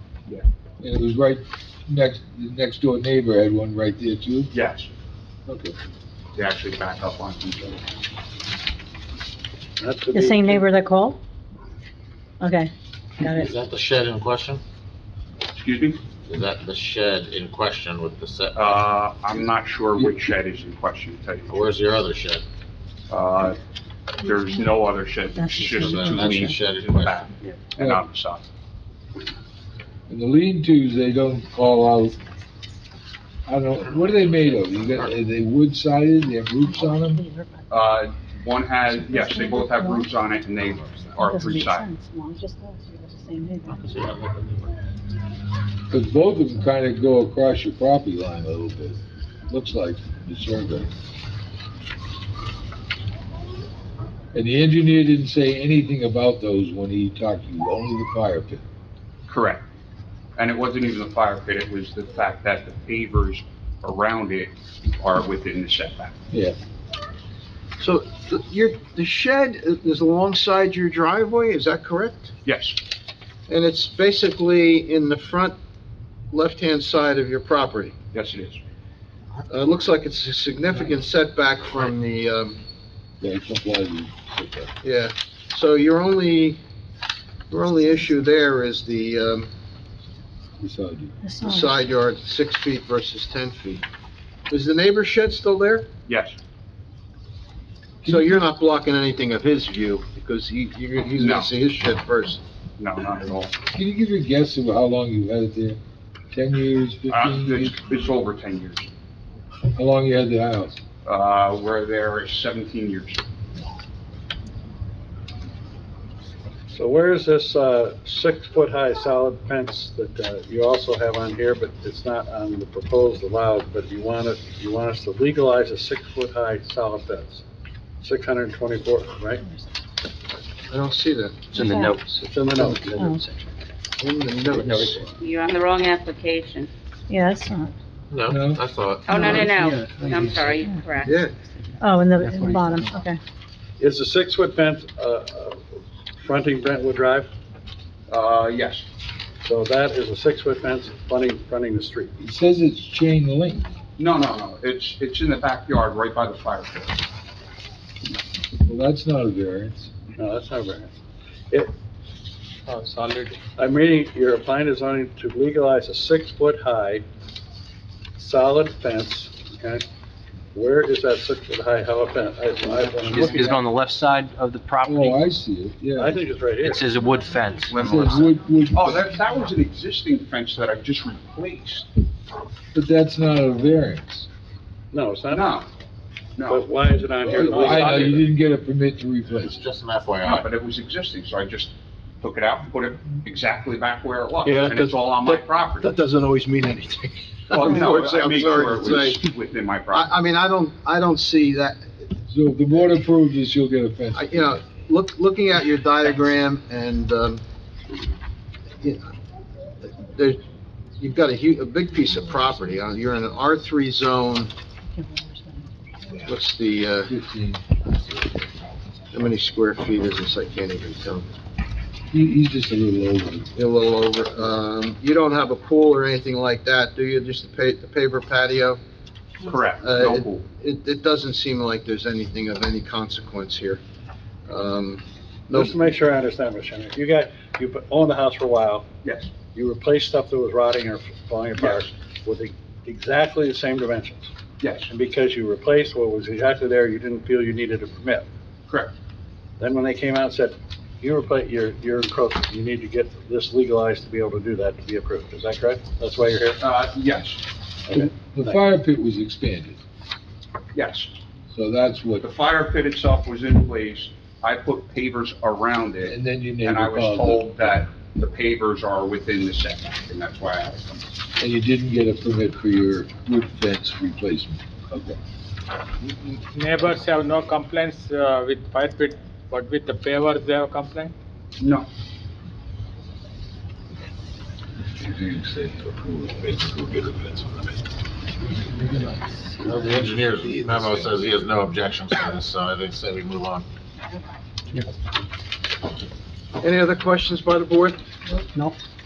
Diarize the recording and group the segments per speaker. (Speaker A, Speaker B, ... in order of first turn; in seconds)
Speaker A: 0.8-4.5, 5.5-5.7, 30.1-32.1, 33.5-37.2, 45.9-50.9, 54.3-58.6, 66.3-66.6, 83.2-84.7, 90.6-91.2, 103.7-105.8, 106.3-107.8, 109.7-110.8, 138.3-138.6, 152.2-153.6, 158.6-159.9, 174.8-176.2, 177.8-179.1, 182.7-184.3, 187.2-189.6, 202.3-204.6, 217.1-217.6, 222.1-223.5, 258.3-259.8, 261.5-262.3, 266.0-267.9, 271.4-275.2, 285.0-287.7, 288.7-291.2
Speaker B: 4.5-4.9, 6.3-7.8, 15.5-16.0, 18.5-21.8, 23.1-23.6, 24.2-28.4, 37.7-41.9, 59.3-59.6, 60.4-66.1, 72.4-72.8, 78.1-78.6, 96.1-96.4, 101.2-101.5, 102.8-103.5, 107.1-108.9, 111.0-113.2, 148.1-148.8, 154.0-157.0, 177.7-181.9, 185.3-185.7, 186.4-186.7, 187.3-188.2, 190.2-195.9, 197.5-200.1, 229.4-230.4, 239.0-239.3, 244.6-244.9, 256.6-257.4, 260.7-261.1, 262.2-271.0, 281.6-281.9
Speaker C: 9.8-10.7, 116.7-127.4, 128.0-129.4, 132.2-133.1, 143.8-145.6, 146.2-147.3, 149.4-152.1, 160.2-160.9, 163.6-167.0, 168.2-169.8, 170.5-173.6, 175.9-176.8, 184.9-185.6, 186.5-188.2, 235.5-238.9, 239.5-244.3, 244.9-248.3, 249.6-256.6, 257.9-258.6
Speaker D: 10.1-11.2, 12.4-13.5, 25.4-26.3, 36.8-37.7, 39.0-40.1, 41.2-43.8, 91.2-91.8, 132.9-133.2, 137.1-137.7, 141.8-143.2, 214.9-216.2
Speaker E: 13.2-14.6, 16.2-18.8, 21.5-22.4, 25.8-27.3, 33.8-35.1, 40.9-41.2, 43.6-44.7, 138.1-139.8, 189.4-190.5, 289.6-293.6
Speaker F: 67.8-72.3, 73.5-75.5, 76.3-77.9, 79.5-82.6, 84.8-86.6, 87.5-89.5, 91.4-93.8, 94.5-95.9, 98.0-102.4, 130.7-131.9, 134.0-135.1, 141.0-141.3, 195.8-199.2, 199.9-201.9, 204.1-207.4, 209.8-210.4, 211.0-214.5, 216.2-217.1, 219.1-221.3, 223.5-228.8, 229.8-233.8, 234.5-235.7, 296.6-298.0
Speaker G: 131.5-133.3, 139.7-140.6, 142.3-142.8, 173.0-175.2, 176.6-178.2, 194.5-197.2
Speaker H: 135.2-136.7, 139.1-141.2
Speaker I: 162.7-163.4, 276.2-281.1